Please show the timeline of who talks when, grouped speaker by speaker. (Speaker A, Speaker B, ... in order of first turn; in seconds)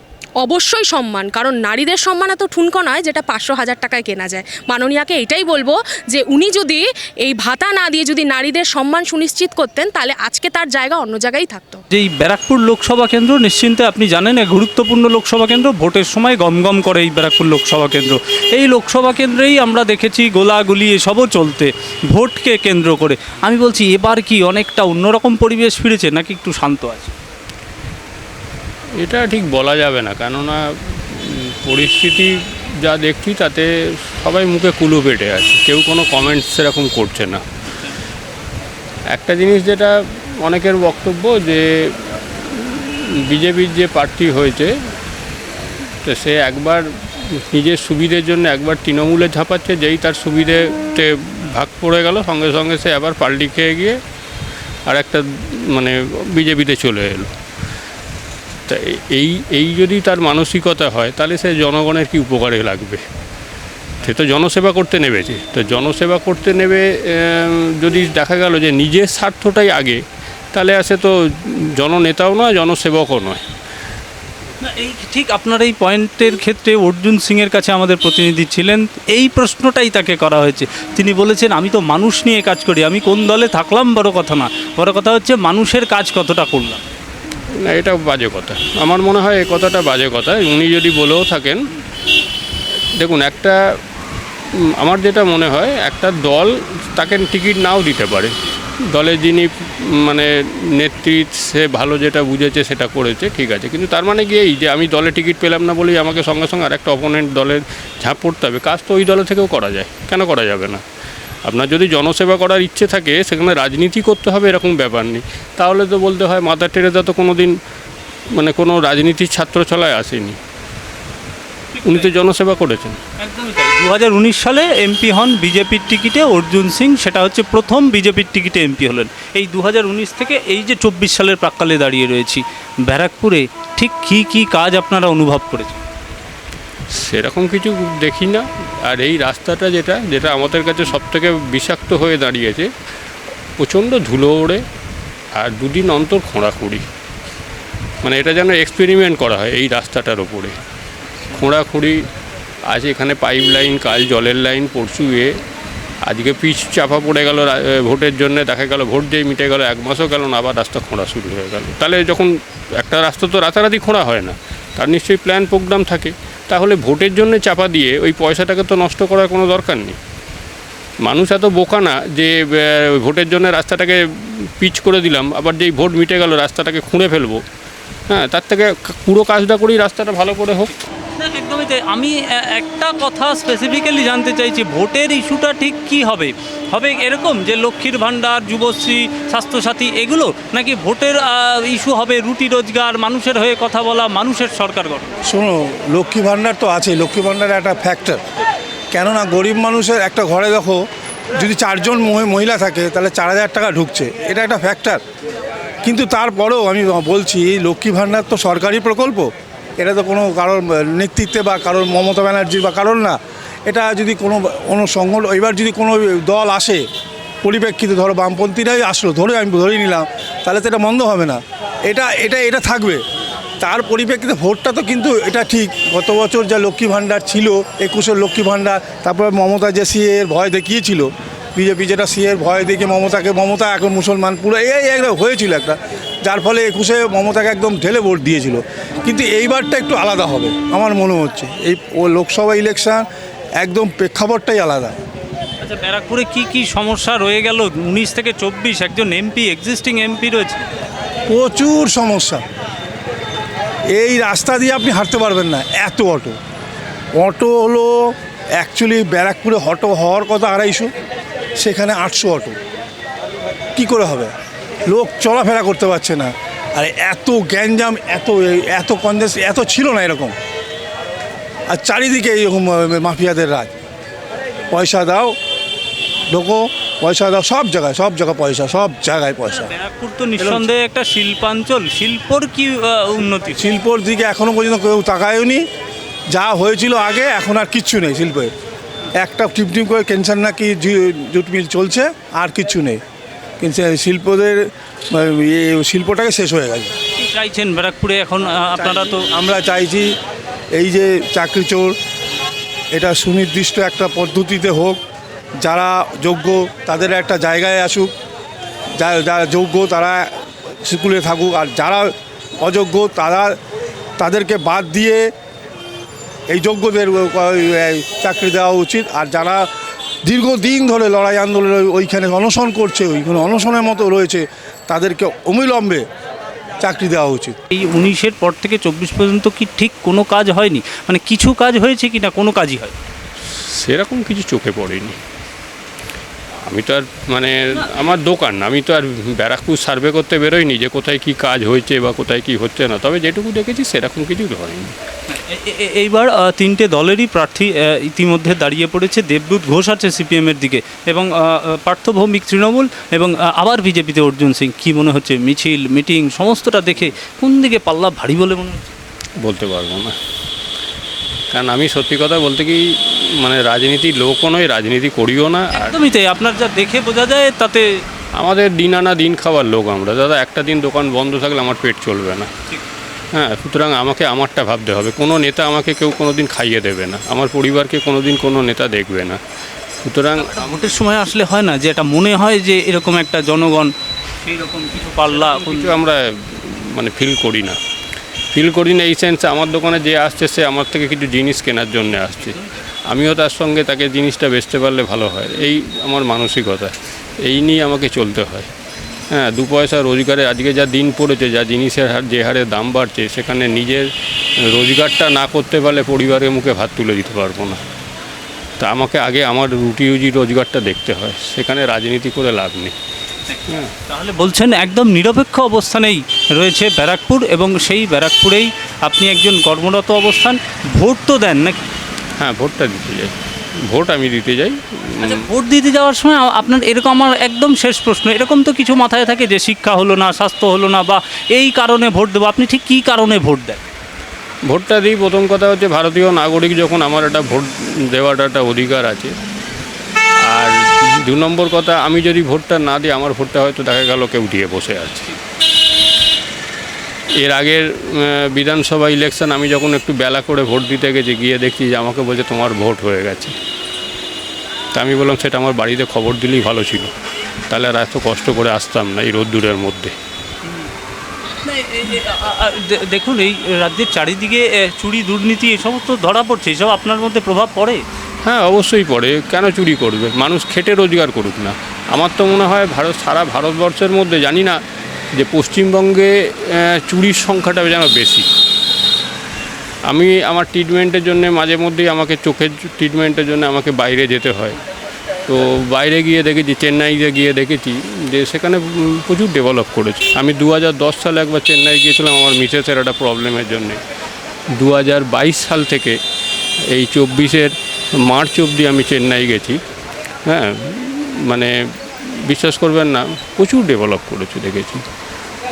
Speaker A: 0.4-11.8
Speaker B: 11.9-27.1, 74.6-86.8, 121.7-122.1, 123.2-135.8, 181.2-195.2, 245.6-250.7, 279.5-283.6, 297.1-299.3, 327.7-332.9, 337.8-338.1, 345.3-358.9, 365.7-368.0, 380.4-383.9, 384.4-386.0, 413.5-421.8, 425.2-433.9, 461.6-468.0
Speaker C: 29.0-37.4, 39.1-44.7, 46.0-46.8, 47.4-54.0, 54.9-57.3, 58.7-63.0, 64.0-70.0, 70.5-73.4, 87.6-91.7, 93.0-93.6, 94.8-98.3, 98.9-110.8, 111.4-117.5, 118.3-120.4, 121.9-123.0, 136.9-142.7, 143.6-144.6, 145.3-146.8, 148.0-150.5, 151.3-152.0, 152.7-155.3, 156.0-170.0, 171.0-174.0, 174.6-177.4, 178.1-180.7, 333.6-335.2, 336.6-344.9, 359.4-360.1, 361.5-365.9, 368.4-372.5, 373.3-379.4, 380.0-380.8, 385.3-387.8, 388.5-392.6, 393.1-398.7, 399.3-404.1, 404.7-407.8, 408.8-412.9, 422.4-423.3, 423.9-425.4, 434.7-439.3, 440.5-445.3, 447.4-453.5, 454.9-457.1, 457.7-460.1, 468.4-474.8, 475.3-478.4, 480.1-484.8, 485.5-494.0, 494.8-496.2, 496.9-499.8, 500.4-501.7, 502.4-505.0
Speaker D: 195.2-198.2, 198.9-205.0, 205.8-216.9, 217.4-223.0, 223.6-243.1, 243.6-244.9, 251.3-252.4, 253.9-256.4, 257.1-260.9, 261.6-262.6, 263.8-264.3, 264.9-270.3, 271.7-273.7, 274.7-275.4, 276.3-279.7, 280.4-280.7, 283.6-285.6, 286.3-288.5, 289.1-293.0, 293.6-296.9, 298.7-300.1, 300.7-301.9, 302.9-305.0, 305.6-308.1, 309.0-310.3, 310.8-313.6, 314.2-315.3, 316.5-319.7, 320.2-326.1, 326.8-327.6